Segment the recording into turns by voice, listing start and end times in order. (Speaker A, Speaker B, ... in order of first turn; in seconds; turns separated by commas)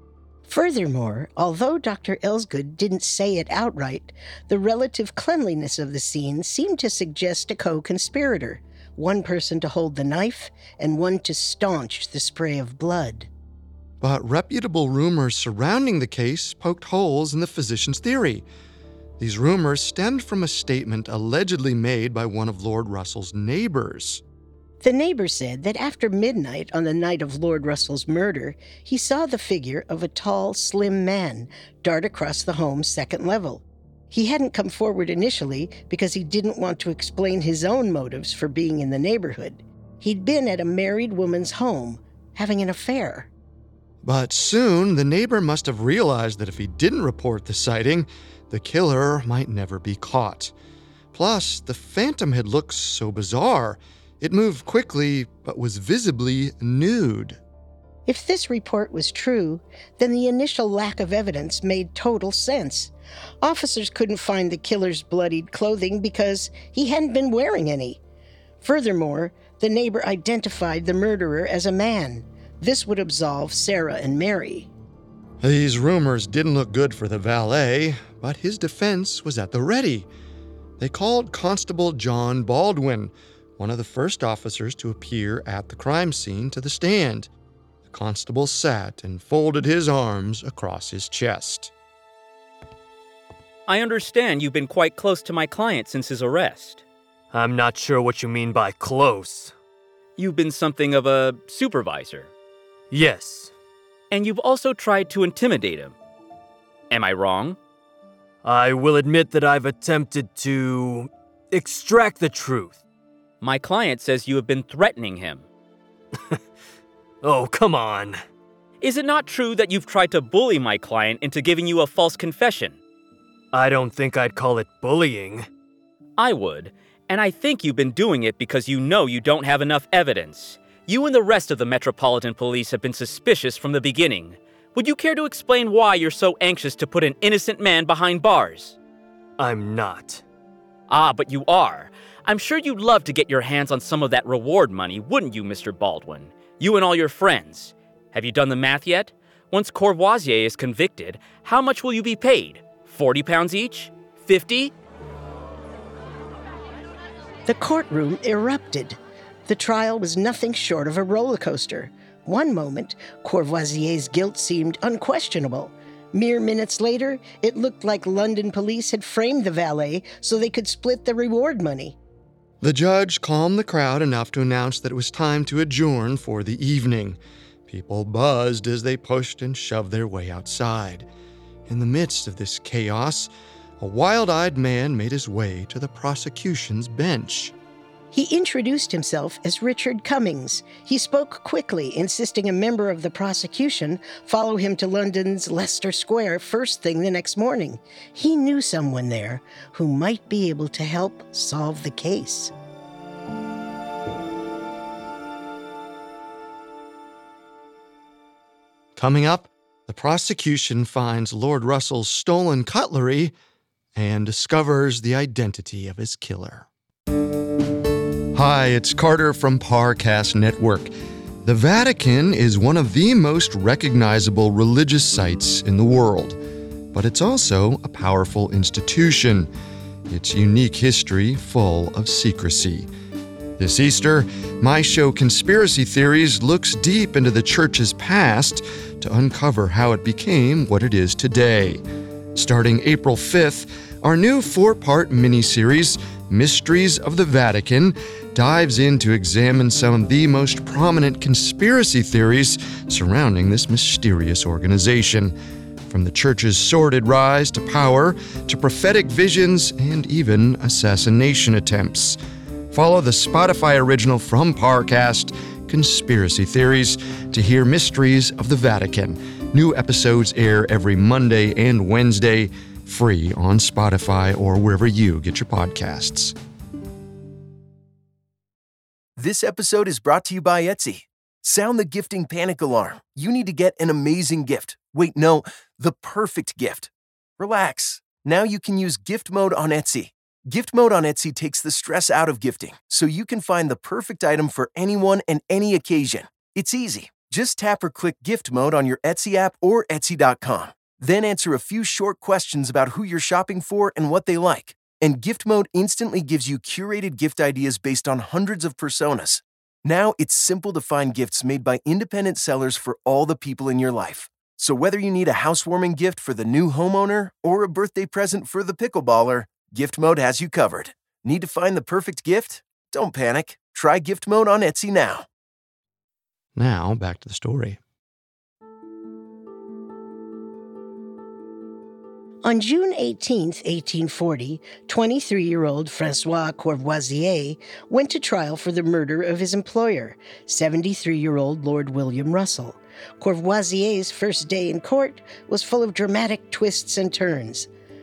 Speaker A: 0.5-13.3, Speaker B: 14.0-18.4, Speaker B: 19.2-24.2, Speaker A: 24.8-43.3, Speaker B: 44.0-50.5, Speaker B: 51.1-57.4, Speaker A: 58.0-68.0, Speaker A: 68.6-74.7, Speaker B: 75.4-80.1, Speaker B: 80.8-87.3, Speaker B: 87.9-91.7, Speaker C: 93.7-96.8, Speaker D: 97.3-99.5, Speaker C: 100.2-102.3, Speaker D: 102.9-103.5, Speaker C: 104.1-105.9, Speaker C: 106.9-107.6, Speaker D: 108.4-112.8, Speaker C: 113.4-115.5, Speaker D: 117.2-118.2, Speaker C: 118.8-122.8, Speaker D: 123.5-125.5, Speaker C: 126.2-138.8, Speaker D: 139.4-140.2, Speaker C: 140.9-154.7, Speaker A: 157.5-172.0, Speaker B: 172.6-181.1, Speaker B: 181.7-187.5, Speaker A: 188.1-202.5, Speaker B: 209.0-213.3, Speaker B: 214.0-216.7, Speaker B: 218.3-220.9, Speaker B: 221.4-226.4, Speaker B: 226.9-229.5, Speaker B: 230.1-232.9, Speaker B: 233.6-241.8, Speaker B: 242.3-255.3, Speaker B: 255.9-262.2, Speaker B: 262.7-276.3, Speaker E: 279.2-325.3, Speaker B: 326.5-327.8, Speaker A: 332.4-347.7